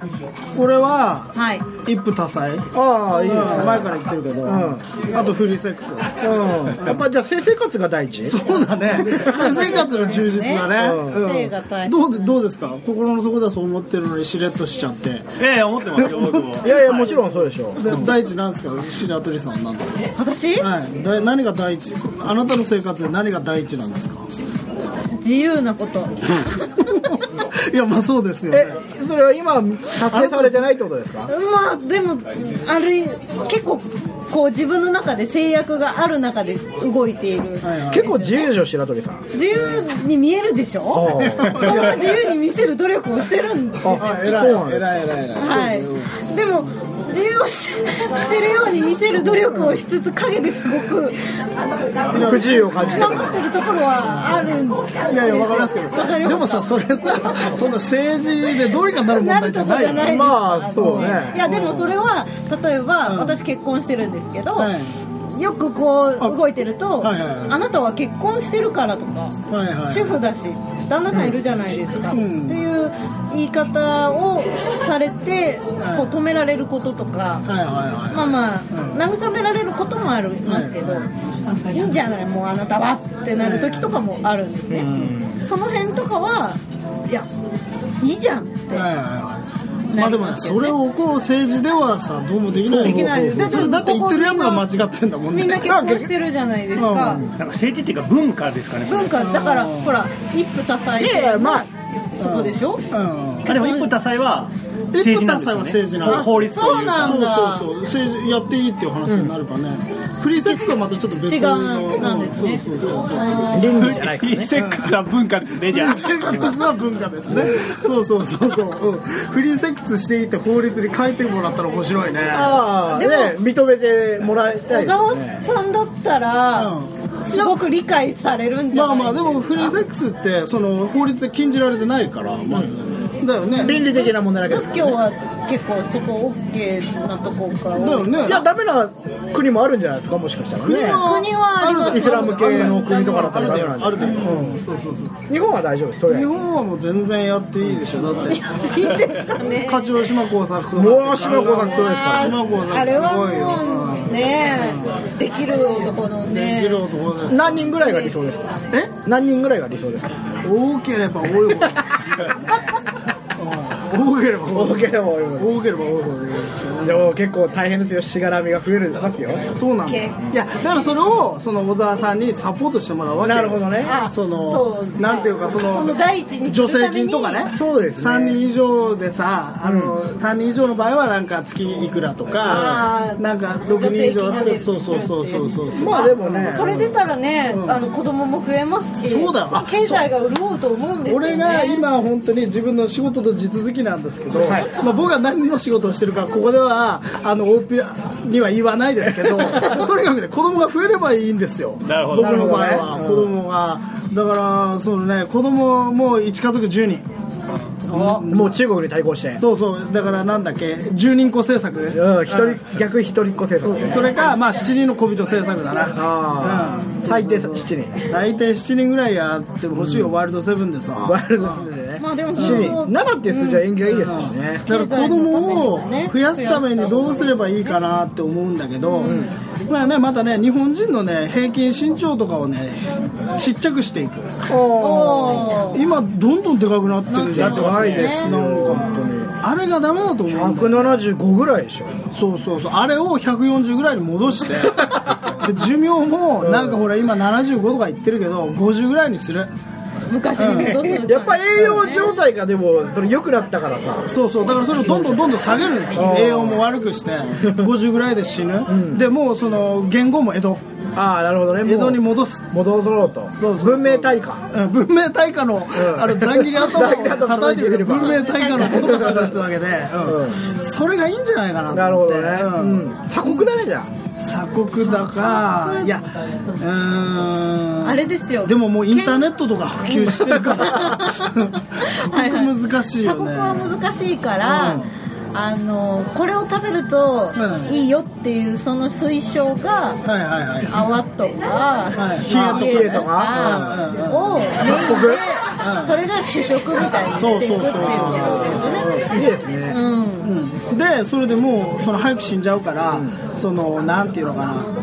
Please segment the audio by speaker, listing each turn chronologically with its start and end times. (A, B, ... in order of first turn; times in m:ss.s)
0:00.6-0:01.3 A
0:01.3-0:01.7 B
0:01.8-0:02.7 A
0:02.7-0:04.8 C
0:03.2-0:06.2 A
0:06.2-0:08.4 C
0:06.7-0:07.1 A
0:08.3-0:15.4 A
0:09.0-0:09.3 C
0:09.1-0:12.3 B
0:10.8-0:11.3 C
0:15.4-0:16.9 D
0:15.9-0:17.1 A
0:16.6-0:18.1 C
0:17.8-0:20.0 A
0:20.2-0:20.7 B
0:20.6-0:24.3 A
0:25.1-0:27.1 B
0:26.8-0:28.8 A
0:28.5-0:31.3 C
0:30.1-0:30.7 A
0:31.3-0:38.5 B
0:37.6-0:38.1 A
0:37.9-0:39.2 C
0:39.3-0:44.2 B
0:39.5-0:39.8 A
0:40.9-0:41.8 C
0:41.1-0:42.3 A
0:43.8-0:44.9 C
0:44.0-0:46.1 A
0:45.4-0:51.2 B
0:49.2-0:49.8 A
0:52.1-0:53.4 A
0:52.1-0:53.4 C
0:52.8-0:56.7 B
0:54.1-0:54.4 A
0:55.1-1:00.2 A
0:59.1-1:04.7 B
1:00.0-1:01.4 C
1:00.8-1:02.0 A
1:03.1-1:03.4 A
1:04.6-1:05.0 A
1:05.3-1:09.4 B
1:07.0-1:07.6 A
1:09.5-1:10.2 A
1:09.9-1:17.5 B
1:12.1-1:12.6 A
1:15.8-1:16.1 A
1:17.5-1:19.0 A
1:18.1-1:21.1 B
1:20.5-1:20.7 C
1:21.7-1:27.3 B
1:23.4-1:23.9 A
1:24.7-1:25.4 C
1:28.0-1:28.9 B
1:28.7-1:29.4 A
1:29.9-1:30.8 B
1:29.9-1:35.8 A
1:32.7-1:34.7 B
1:32.7-1:33.7 C
1:35.3-1:37.2 B
1:35.6-1:36.1 C
1:36.8-1:37.2 A
1:37.0-1:37.3 C
1:37.4-1:39.2 D
1:38.9-1:42.8 B
1:39.2-1:40.0 A
1:41.0-1:41.7 C
1:42.2-1:43.6 A
1:43.4-1:47.3 D
1:43.5-1:43.9 B
1:44.9-1:53.5 A
1:46.1-1:47.7 B
1:49.1-1:49.3 C
1:50.4-1:54.0 B
1:53.5-1:54.5 C
1:53.7-1:56.6 D
1:54.5-1:55.0 A
1:55.7-2:02.6 A
2:02.3-2:05.4 C
2:02.9-2:03.3 B
2:04.7-2:06.8 B
2:06.6-2:07.6 A
2:07.3-2:09.7 B
2:08.7-2:13.8 A
2:13.6-2:15.0 C
2:13.6-2:18.3 B
2:17.7-2:18.4 A
2:18.2-2:21.1 C
2:20.6-2:25.2 A
2:21.0-2:23.4 B
2:21.9-2:24.6 C
2:24.0-2:24.5 B
2:25.3-2:26.3 C
2:26.1-2:28.4 A
2:28.3-2:30.0 B
2:29.4-2:35.0 A
2:30.8-2:32.4 C
2:31.6-2:36.8 B
2:36.3-2:37.7 A
2:37.3-2:40.2 C
2:37.8-2:38.1 B
2:40.4-2:42.4 A
2:43.4-2:47.1 A
2:44.5-2:45.6 C
2:46.8-2:49.4 C
2:49.6-2:55.9 A
2:49.9-2:50.2 B
2:53.2-2:53.9 C
2:53.8-2:57.5 B
2:56.4-3:07.0 A
2:57.5-2:58.4 C
2:59.6-2:59.9 C
3:02.4-3:11.9 B
3:05.8-3:06.7 C
3:07.5-3:07.8 A
3:09.0-3:10.1 A
3:11.1-3:27.0 A
3:14.4-3:14.7 C
3:21.8-3:22.8 D
3:22.1-3:23.3 C
3:27.9-3:28.5 A
3:28.0-3:29.4 C
3:29.4-3:32.6 A
3:31.9-3:34.1 C
3:33.6-3:41.6 A
3:35.9-3:38.1 C
3:39.8-3:40.1 C
3:41.0-3:44.7 C
3:42.0-3:43.7 B
3:42.4-3:42.8 A
3:43.8-3:54.4 A
3:44.7-3:47.8 B
3:48.9-3:49.3 B
3:49.0-3:49.3 C
3:54.5-3:55.6 C
3:54.8-3:55.8 B
3:55.7-4:01.0 A
3:57.1-3:58.3 B
3:57.3-3:59.3 C
3:57.4-3:58.1 D
4:00.3-4:02.1 C
4:02.1-4:09.5 A
4:04.8-4:05.3 C
4:06.4-4:06.8 C
4:10.1-4:12.1 B
4:10.4-4:11.0 A
4:10.7-4:14.1 C
4:14.1-4:20.6 A
4:14.9-4:15.2 C
4:15.9-4:16.6 C
4:17.4-4:17.7 C
4:18.7-4:19.0 C
4:21.0-4:24.4 C
4:21.6-4:22.5 A
4:23.4-4:33.5 A
4:25.7-4:29.3 C
4:28.1-4:29.3 B
4:30.0-4:30.5 C
4:31.7-4:33.9 C
4:34.2-4:43.8 A
4:34.8-4:35.9 B
4:37.8-4:39.3 B
4:39.9-4:50.0 B
4:44.4-4:44.8 A
4:44.6-4:44.9 C
4:47.4-4:47.7 A
4:50.0-4:50.8 A
4:50.7-4:59.1 B
4:52.0-4:54.4 A
4:52.2-4:53.8 C
4:54.6-4:55.2 C
4:55.6-4:56.0 A
4:57.2-4:59.0 A
4:58.0-4:59.8 C
4:59.7-5:00.3 B
5:00.2-5:04.7 A
5:02.9-5:03.2 C